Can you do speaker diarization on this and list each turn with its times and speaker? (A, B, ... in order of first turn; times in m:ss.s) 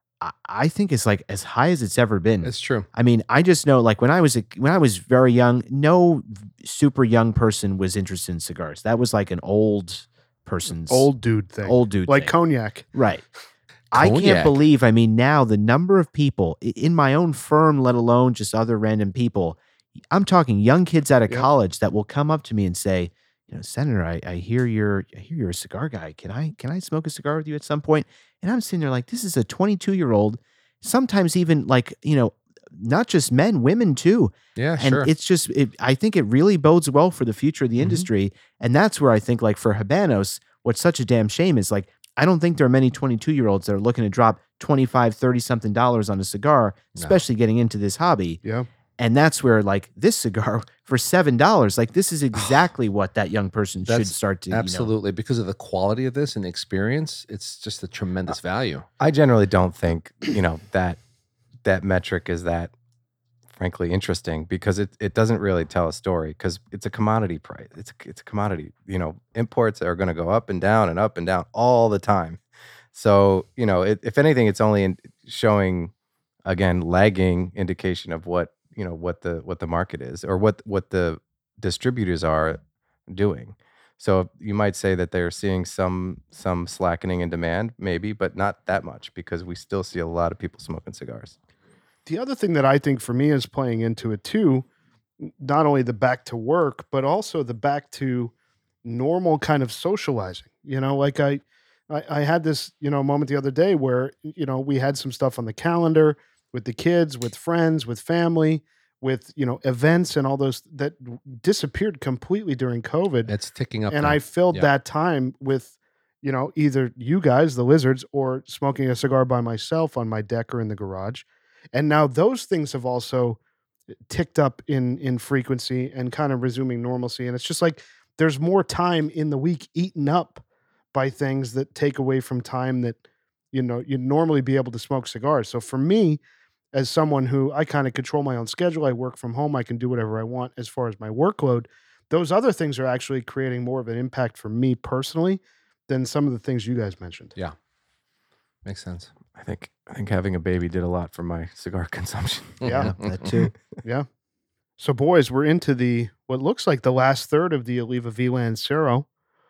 0:00.2-0:11.1 A
0:02.4-0:02.8 B
0:10.9-0:12.9 C
0:11.6-0:12.3 A
0:12.9-0:13.2 A
0:13.9-0:14.6 B
0:13.9-0:19.6 A
0:20.1-0:48.4 A
0:34.6-0:35.1 B
0:37.8-0:38.1 B
0:48.4-0:48.7 C
0:49.0-0:54.9 A
0:53.8-0:58.8 B
0:59.0-1:01.0 D
1:01.6-1:02.7 D
1:03.5-1:12.4 D
1:12.9-1:15.9 D
1:16.4-1:31.3 D
1:32.0-1:34.6 C
1:35.2-1:38.3 C
1:38.8-1:53.3 C
1:53.3-1:54.7 B
1:53.9-2:03.4 C
2:04.1-2:10.4 C
2:10.9-2:13.0 C
2:13.5-2:16.2 C
2:16.7-2:27.3 C
2:28.6-2:29.1 B
2:29.3-2:33.5 D
2:32.6-2:32.9 C
2:32.6-2:33.5 A
2:34.8-2:39.0 C